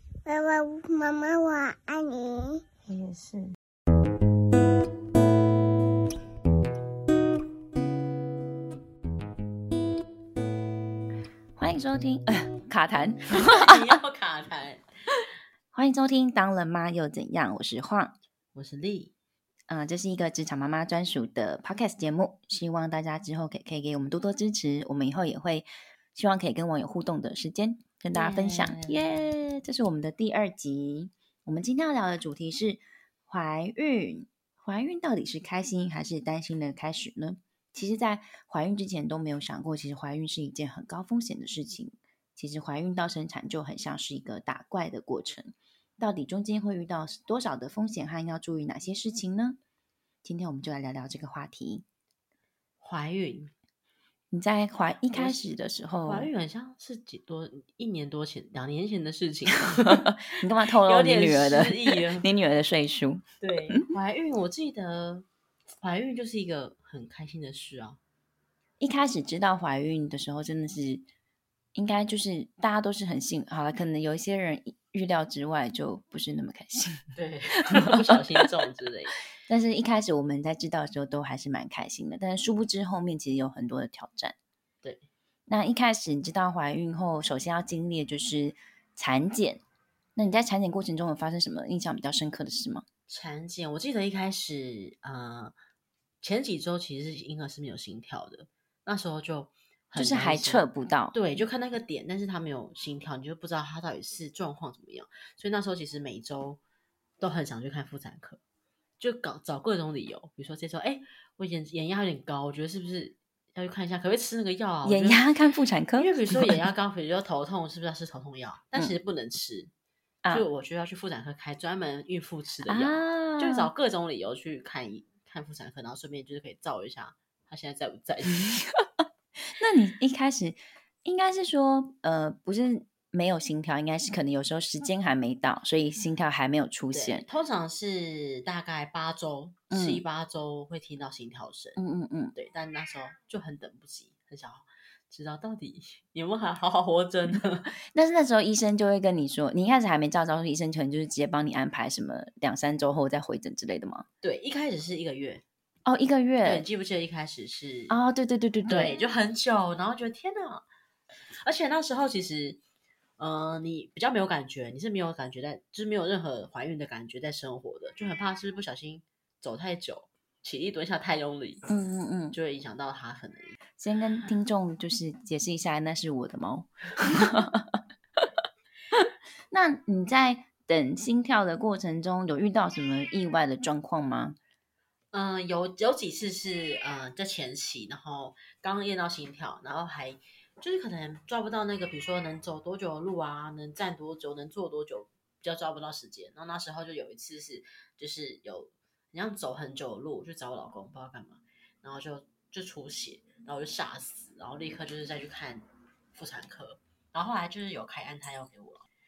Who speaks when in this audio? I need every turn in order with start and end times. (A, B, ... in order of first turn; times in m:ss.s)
0:00.2-0:02.6 A
0:02.9-0:03.5 B
0:11.6-0:13.8 C
0:13.3-0:14.8 B
0:15.7-0:18.2 C
0:18.5-0:19.1 B
0:19.7-0:49.6 C
0:28.1-0:29.1 B
0:50.2-0:51.8 C
0:52.8-0:53.5 B
0:54.3-0:56.3 C
0:55.1-0:55.4 B
0:56.0-1:00.1 B
0:59.8-1:03.8 C
1:00.8-1:02.2 B
1:03.4-1:05.2 B
1:05.8-1:08.0 B
1:08.8-1:11.0 C
1:11.7-1:17.1 C
1:17.1-1:19.2 B
1:17.7-1:18.4 C
1:19.5-1:24.4 C
1:25.5-1:29.6 C
1:30.2-1:32.8 C
1:33.1-1:35.6 B
1:36.2-1:46.6 B
1:39.9-1:41.1 C
1:47.2-1:48.4 B
1:49.0-1:55.2 B
1:54.8-1:56.7 C
1:56.0-1:59.7 B
2:00.3-2:08.5 B
2:02.7-2:03.7 C
2:08.3-2:08.8 C
2:09.5-2:17.2 C
2:16.9-2:21.8 B
2:19.7-2:20.0 C
2:21.8-2:22.3 C
2:22.3-2:27.7 B
2:27.9-2:34.0 C
2:34.2-2:35.4 B
2:35.8-2:36.6 C
2:36.4-2:38.0 B
2:37.9-2:38.9 C
2:38.7-2:40.6 B
2:41.4-2:42.6 B
2:43.2-2:51.7 B
2:51.7-2:52.4 C
2:52.3-2:53.5 B
2:53.8-2:57.8 C
2:58.9-3:04.4 C
3:05.1-3:28.8 B